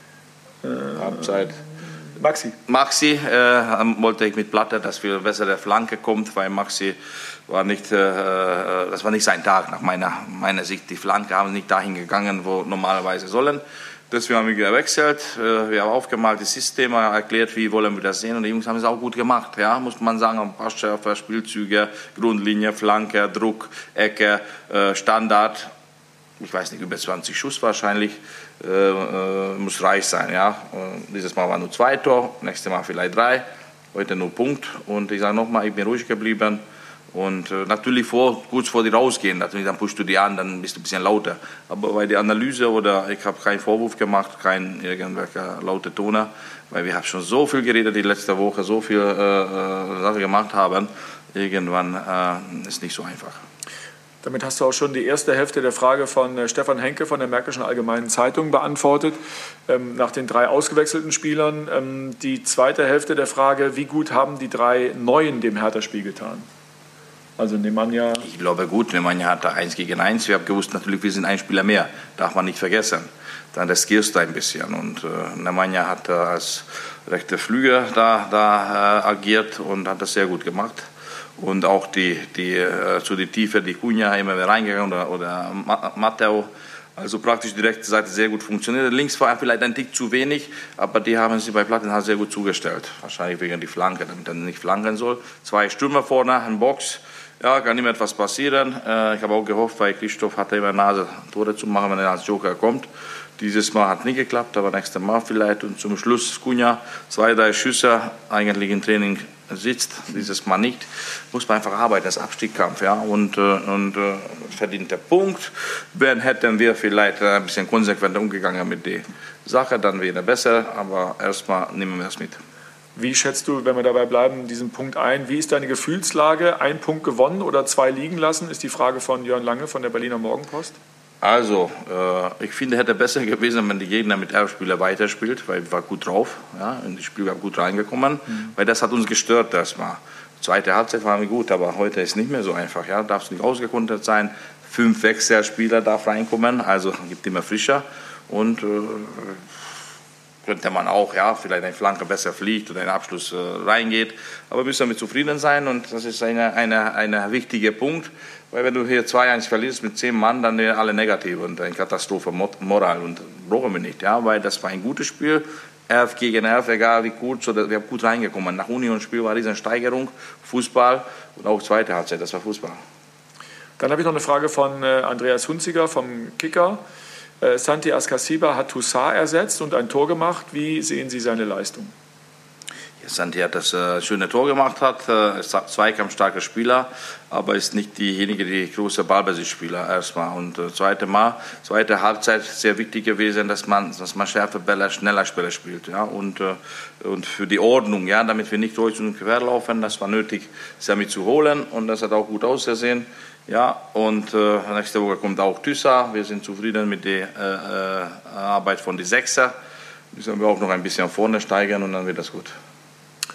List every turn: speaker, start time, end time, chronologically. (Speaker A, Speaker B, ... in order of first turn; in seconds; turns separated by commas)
Speaker A: 0.6-1.3, Speaker B: 1.0-1.6, Speaker A: 2.2-2.5, Speaker B: 2.7-7.0, Speaker B: 7.5-25.7, Speaker B: 26.4-53.4, Speaker A: 54.2-59.2, Speaker A: 59.7-66.4, Speaker A: 67.4-68.2, Speaker B: 68.2-80.9, Speaker B: 81.4-102.9, Speaker B: 103.4-122.4, Speaker A: 123.0-130.8, Speaker B: 131.2-149.4, Speaker B: 150.4-172.8, Speaker A: 173.8-176.8, Speaker A: 177.4-181.9, Speaker B: 183.0-209.5, Speaker B: 210.1-212.5